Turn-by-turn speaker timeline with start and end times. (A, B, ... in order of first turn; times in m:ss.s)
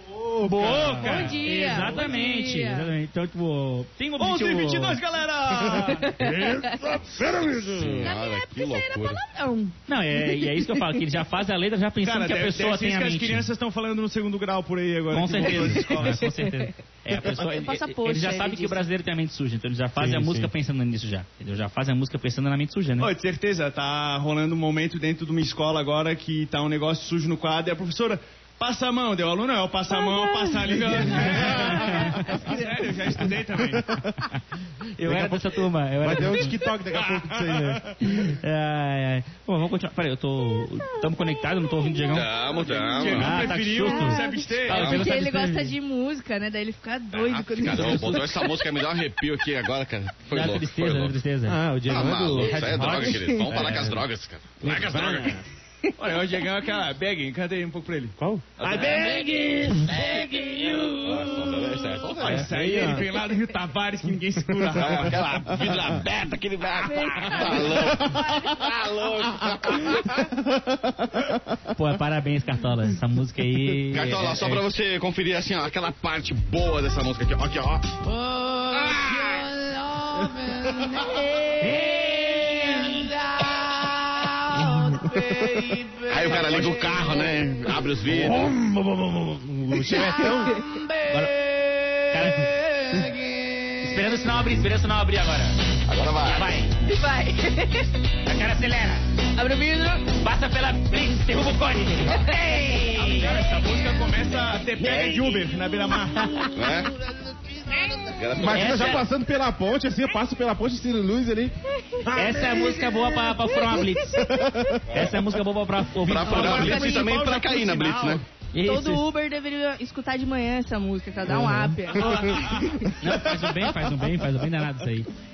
0:00.4-0:01.4 A
0:00.4-0:05.0 B
0:00.5-0:01.0 C
0:00.9-0:02.9 D
0:04.2-0:06.2 C
0:05.8-0:08.1 A
0:05.9-0:06.8 D
0:07.6-0:09.2 E
0:08.0-0:11.0 D
0:09.9-0:13.5 B
0:12.0-0:16.2 C
0:15.1-0:23.1 B
0:15.9-0:18.8 D
0:20.0-0:20.5 A
0:23.0-0:33.8 C
0:30.0-0:31.0 D
0:31.1-0:32.3 B
0:31.9-0:32.6 D
0:33.6-0:34.2 A
0:35.0-0:36.6 B
0:35.0-0:38.0 A
0:37.1-0:37.7 C
0:38.0-0:42.3 B
0:41.8-0:42.1 D
0:42.1-0:43.4 E
0:42.5-0:45.0 C
0:42.6-0:48.7 D
0:43.1-0:45.7 B
0:44.7-0:45.0 E
0:47.1-0:51.2 E
0:47.8-0:48.1 B
0:50.3-0:54.0 B
0:51.4-0:54.0 A
0:51.8-0:55.4 E
0:54.6-0:55.4 A
0:54.7-0:55.3 B
0:56.0-0:59.2 C
0:58.2-0:58.6 A
0:58.6-1:01.2 B
1:00.2-1:00.5 D
1:00.8-1:01.2 C
1:01.0-1:02.5 E
1:02.1-1:05.3 C
1:02.3-1:03.1 A
1:04.6-1:06.0 A
1:04.7-1:10.3 E
1:06.8-1:08.6 D
1:07.7-1:08.4 A
1:09.9-1:11.6 A
1:11.7-1:14.6 B
1:13.9-1:18.0 E
1:18.2-1:18.7 D
1:18.7-1:19.5 E
1:19.6-1:21.7 D
1:21.6-1:23.1 B
1:23.3-1:23.6 D
1:24.6-1:25.7 A
1:24.6-1:26.0 D
1:26.1-1:28.5 E
1:28.1-1:30.6 A
1:28.5-1:29.4 B
1:29.9-1:31.0 D
1:31.1-1:31.4 B
1:31.9-1:32.5 B
1:32.3-1:33.4 D
1:33.8-1:35.6 B
1:35.9-1:36.5 E
1:36.2-1:36.7 B
1:36.8-1:37.9 D
1:38.2-1:39.1 B
1:39.4-1:40.2 D
1:40.1-1:42.4 B
1:42.1-1:43.3 D
1:42.9-1:46.5 C
1:43.0-1:43.3 B
1:44.8-1:45.2 D
1:45.8-1:46.8 D
1:46.5-1:46.9 E
1:47.8-1:48.1 D
1:48.1-1:49.0 E
1:48.3-1:52.9 A
1:48.4-1:49.1 B
1:51.8-1:54.7 D
1:52.1-1:54.3 B
1:54.1-1:55.0 A
1:54.9-1:57.0 B
1:56.0-1:58.2 E
1:56.2-1:57.2 D
1:56.2-1:58.2 C
1:58.5-1:59.1 B
1:58.6-2:02.9 D
2:01.3-2:03.9 A
2:02.0-2:05.1 B